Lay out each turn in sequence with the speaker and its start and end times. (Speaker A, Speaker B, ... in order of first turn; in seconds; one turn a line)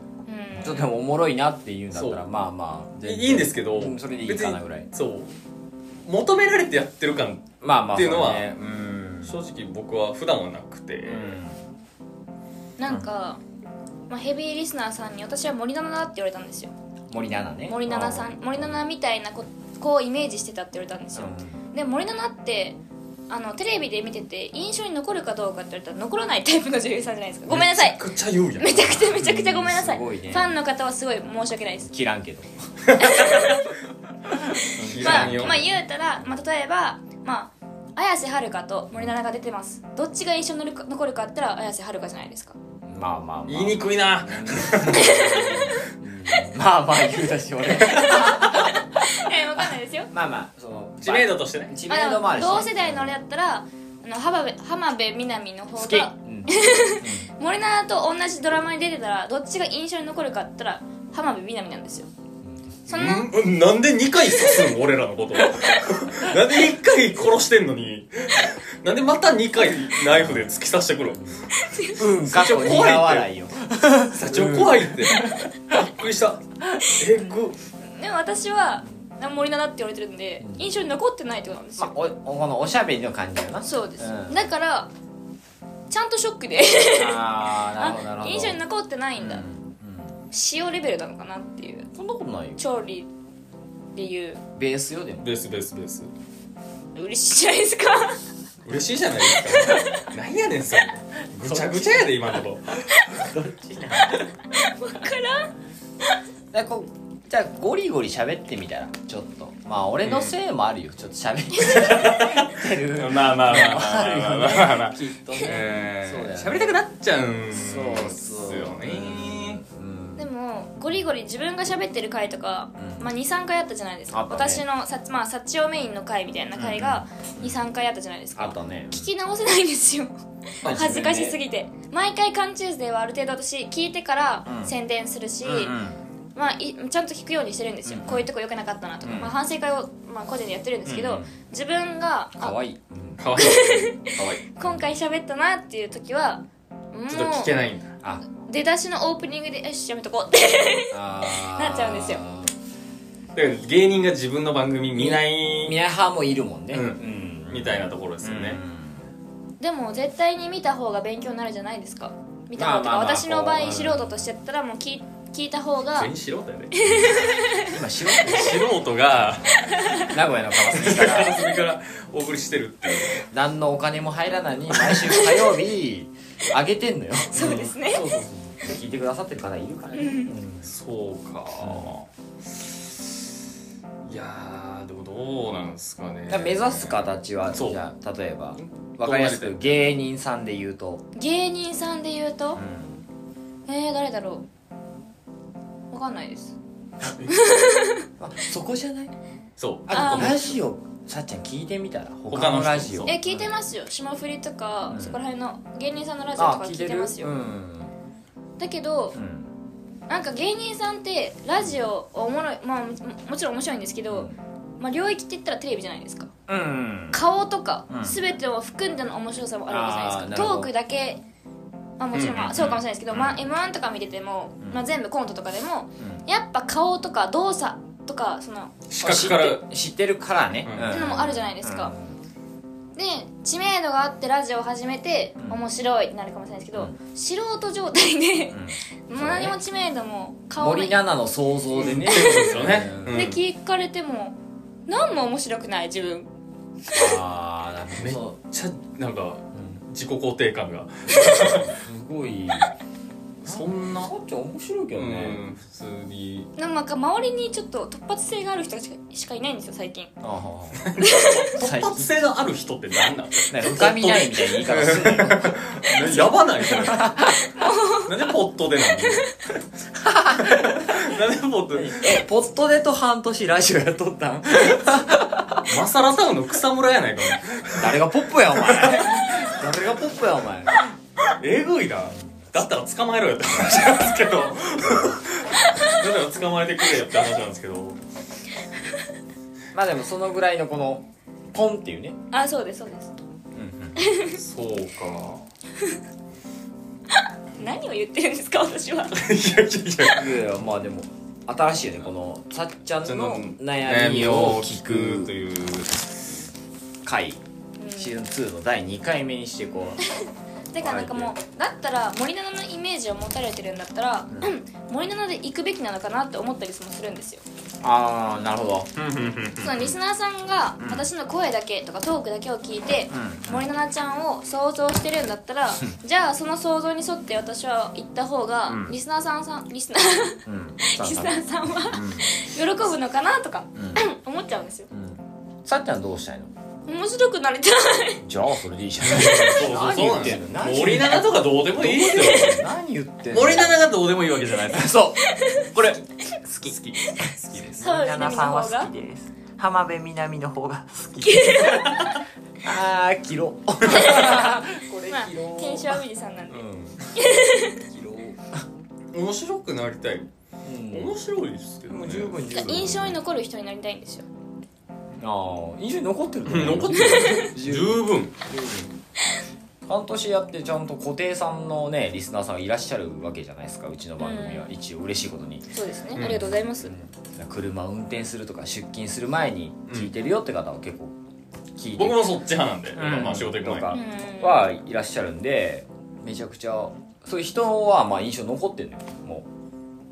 Speaker A: 0.2-0.9
Speaker B: 0.6-4.9
Speaker C: 1.9-2.2
Speaker C: 3.0-5.3
Speaker C: 6.0-8.6
Speaker B: 7.6-9.4
Speaker C: 9.2-11.4
Speaker B: 11.1-11.6
Speaker A: 12.8-13.4
Speaker A: 14.1-16.7
Speaker B: 17.1-18.8
Speaker A: 17.7-28.0
Speaker B: 21.1-21.6
Speaker C: 27.5-29.1
Speaker A: 28.6-31.9
Speaker B: 29.1-30.6
Speaker B: 31.8-32.5
Speaker C: 32.8-33.6
Speaker A: 33.0-33.6
Speaker B: 33.0-33.6
Speaker B: 34.3-35.7
Speaker A: 34.5-42.6
Speaker C: 34.8-35.7
Speaker B: 42.9-53.1
Speaker C: 43.5-45.9
Speaker A: 47.8-50.1
Speaker C: 51.0-51.7
Speaker A: 51.9-62.1
Speaker B: 55.8-57.3
Speaker A: 62.9-63.3
Speaker C: 62.9-73.3
Speaker B: 70.1-70.5
Speaker B: 71.1-75.8
Speaker A: 71.6-72.0
Speaker C: 74.1-77.5
Speaker A: 77.9-81.9
Speaker B: 80.4-80.7
Speaker B: 81.8-84.5
Speaker A: 83.6-84.9
Speaker A: 85.9-87.2
Speaker B: 86.9-88.6
Speaker A: 87.8-89.4
Speaker B: 89.2-90.2
Speaker A: 90.3-91.9
Speaker B: 91.9-92.6
Speaker A: 92.6-93.1
Speaker A: 93.9-94.4
Speaker B: 94.5-95.3
Speaker C: 95.2-96.1
Speaker A: 96.9-98.2
Speaker C: 98.6-102.7
Speaker A: 99.5-99.8
Speaker B: 101.4-102.1
Speaker B: 102.7-104.3
Speaker A: 104.5-105.5
Speaker B: 106.5-116.8
Speaker C: 110.0-110.3
Speaker C: 111.7-119.6
Speaker B: 117.5-120.3
Speaker A: 120.2-135.8
Speaker B: 122.8-123.1
Speaker B: 124.1-124.6
Speaker B: 126.5-127.6
Speaker B: 128.3-129.1
Speaker B: 130.6-131.4
Speaker B: 134.4-134.7
Speaker B: 135.4-136.0
Speaker A: 136.3-142.6
Speaker B: 137.8-138.3
Speaker B: 139.0-139.3
Speaker B: 140.8-141.3
Speaker B: 142.4-143.2
Speaker C: 143.2-144.4
Speaker A: 143.3-147.5
Speaker B: 144.6-144.9
Speaker C: 147.1-147.9
Speaker A: 148.3-152.2
Speaker B: 150.9-152.5
Speaker C: 153.3-155.8
Speaker B: 154.9-159.1
Speaker C: 156.7-158.6
Speaker A: 159.6-166.1
Speaker B: 162.6-164.1
Speaker C: 165.9-167.4
Speaker A: 166.7-167.7
Speaker B: 167.1-169.4
Speaker C: 168.2-170.0
Speaker A: 169.7-170.1
Speaker B: 170.0-171.4
Speaker C: 170.6-173.2
Speaker B: 173.3-180.7
Speaker A: 175.1-175.4
Speaker A: 177.3-178.1
Speaker C: 178.0-178.3
Speaker A: 179.9-180.3
Speaker C: 180.6-182.1
Speaker B: 181.6-181.9
Speaker C: 184.1-187.8
Speaker B: 186.3-191.0
Speaker C: 188.6-189.8
Speaker A: 191.2-192.6
Speaker B: 192.5-193.0
Speaker A: 193.7-194.4
Speaker A: 195.9-196.5
Speaker C: 197.0-197.4
Speaker A: 197.3-198.1
Speaker B: 198.2-199.1
Speaker C: 199.6-200.5
Speaker B: 199.9-203.5
Speaker A: 199.9-200.4
Speaker C: 202.3-203.2
Speaker A: 203.0-207.3
Speaker B: 204.9-205.2
Speaker B: 206.4-207.9
Speaker A: 208.6-209.2
Speaker B: 209.1-209.5
Speaker A: 210.1-216.3
Speaker B: 214.1-214.4
Speaker B: 216.5-217.2
Speaker A: 217.1-221.2
Speaker B: 217.9-218.2
Speaker B: 219.7-220.7
Speaker A: 222.0-228.7
Speaker C: 222.1-222.8
Speaker B: 226.0-226.2
Speaker C: 228.9-229.6
Speaker B: 229.0-232.2
Speaker C: 230.6-231.1
Speaker A: 230.9-231.9
Speaker A: 232.9-241.0
Speaker B: 238.5-239.6
Speaker B: 240.6-243.3
Speaker C: 241.7-243.4
Speaker A: 242.0-242.5
Speaker A: 243.1-246.3
Speaker B: 246.9-248.3
Speaker C: 248.0-251.7
Speaker B: 249.5-249.8
Speaker B: 251.1-252.7
Speaker C: 253.4-254.1
Speaker B: 253.4-255.4
Speaker C: 254.9-256.5
Speaker A: 256.6-260.1
Speaker B: 260.2-260.9
Speaker C: 260.7-267.1
Speaker A: 261.0-261.5
Speaker B: 261.6-262.1
Speaker B: 263.5-267.4
Speaker A: 267.5-268.1
Speaker C: 268.0-269.2
Speaker B: 269.9-271.1
Speaker C: 270.4-272.2
Speaker B: 271.7-275.7
Speaker C: 275.7-278.0
Speaker B: 277.8-280.8
Speaker C: 278.5-279.4
Speaker C: 281.4-288.0
Speaker B: 284.9-285.2
Speaker B: 289.7-292.2
Speaker A: 292.3-293.1
Speaker B: 293.5-294.1
Speaker A: 294.0-294.4
Speaker C: 294.2-295.4
Speaker A: 297.6-299.2
Speaker C: 299.1-300.4
Speaker B: 300.1-305.3
Speaker C: 303.0-306.3
Speaker B: 307.0-307.4
Speaker A: 307.8-308.2
Speaker B: 308.0-310.0
Speaker A: 310.1-317.4
Speaker B: 310.8-311.3
Speaker B: 317.8-318.9
Speaker C: 318.9-319.9
Speaker A: 319.6-334.9
Speaker B: 320.8-321.1
Speaker B: 323.1-323.7
Speaker B: 328.7-328.9
Speaker B: 330.4-332.4
Speaker B: 333.7-334.0
Speaker B: 334.9-336.5
Speaker A: 336.9-338.2
Speaker B: 338.2-343.8
Speaker C: 339.0-342.6
Speaker C: 343.3-344.9
Speaker B: 344.7-352.1
Speaker A: 345.2-345.7
Speaker C: 346.7-347.8
Speaker A: 347.8-348.9
Speaker A: 351.2-352.0
Speaker C: 351.9-352.1
Speaker B: 352.6-357.1
Speaker A: 353.9-354.6
Speaker A: 355.1-357.8
Speaker B: 357.9-358.6
Speaker C: 359.1-360.3
Speaker B: 360.6-361.2
Speaker C: 360.9-362.5
Speaker B: 361.9-363.2
Speaker A: 362.5-364.2
Speaker B: 365.2-368.9
Speaker C: 366.4-368.3
Speaker A: 366.9-367.5
Speaker B: 369.9-375.7
Speaker A: 374.2-374.7
Speaker A: 375.7-376.9
Speaker C: 376.1-376.4
Speaker B: 376.2-381.1
Speaker B: 381.8-382.3
Speaker C: 381.9-383.9
Speaker B: 382.9-389.5
Speaker A: 383.9-384.6